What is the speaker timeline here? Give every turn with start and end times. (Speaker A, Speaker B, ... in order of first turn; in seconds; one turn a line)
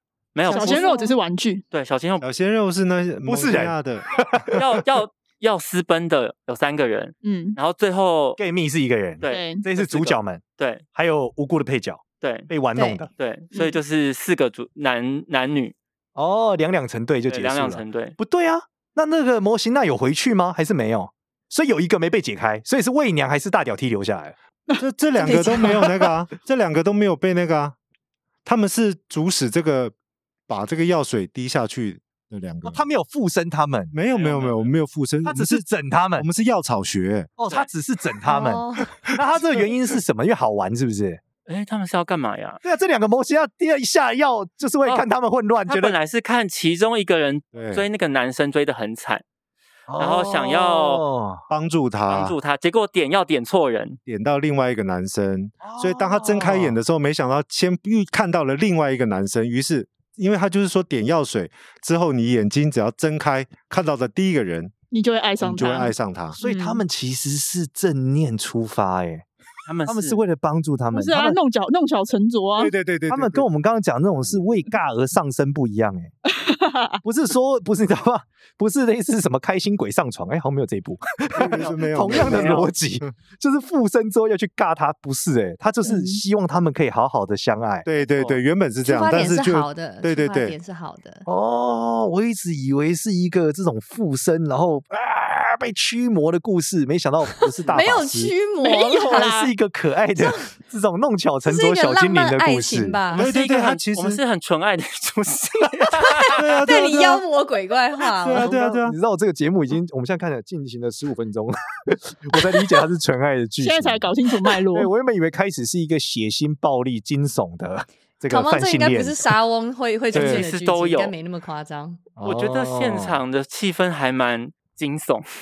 Speaker A: 0.3-0.9
Speaker B: 0.5-1.2
Speaker C: 0.5-1.6
Speaker A: 1.7-2.3
Speaker D: 2.2-4.6
Speaker E: 3.2-4.8
Speaker A: 4.6-8.4
Speaker C: 7.2-7.6
Speaker E: 8.4-13.1
Speaker A: 9.2-10.8
Speaker C: 9.3-9.6
Speaker A: 12.2-12.5
Speaker B: 12.8-13.0
Speaker A: 13.2-15.8
Speaker E: 16.1-24.4
Speaker A: 17.3-18.2
Speaker D: 24.8-27.8
Speaker E: 25.2-26.1
Speaker B: 25.3-25.6
Speaker D: 28.4-29.9
Speaker D: 30.5-32.8
Speaker E: 32.6-33.9
Speaker D: 33.9-37.3
Speaker A: 34.1-34.7
Speaker E: 35.2-36.3
Speaker E: 37.4-41.2
Speaker B: 38.3-39.0
Speaker A: 41.5-42.6
Speaker E: 42.6-46.0
Speaker A: 45.7-49.2
Speaker D: 47.5-47.9
Speaker E: 49.9-51.5
Speaker A: 50.0-51.0
Speaker D: 51.5-52.4
Speaker A: 52.1-54.0
Speaker D: 54.1-64.7
Speaker E: 55.6-56.8
Speaker C: 64.9-66.8
Speaker D: 65.4-66.4
Speaker E: 66.3-69.3
Speaker A: 69.7-70.2
Speaker E: 69.9-71.4
Speaker C: 70.9-72.7
Speaker D: 72.6-73.5
Speaker E: 73.1-76.1
Speaker D: 74.2-74.5
Speaker C: 76.3-77.0
Speaker E: 77.0-87.9
Speaker D: 81.3-83.0
Speaker A: 82.0-82.7
Speaker C: 85.8-86.2
Speaker D: 87.8-90.6
Speaker A: 88.0-88.4
Speaker B: 88.8-91.2
Speaker E: 91.3-98.3
Speaker A: 97.5-97.8
Speaker B: 97.7-99.3
Speaker C: 98.6-99.5
Speaker E: 99.1-103.0
Speaker B: 100.2-100.5
Speaker B: 101.5-103.3
Speaker D: 103.1-104.2
Speaker A: 103.1-106.4
Speaker B: 106.0-108.5
Speaker D: 106.3-107.2
Speaker D: 108.2-109.0
Speaker E: 108.4-119.3
Speaker C: 113.6-114.9
Speaker B: 118.3-122.1
Speaker A: 120.1-121.1
Speaker E: 120.1-120.5
Speaker E: 122.2-123.2
Speaker A: 122.2-125.3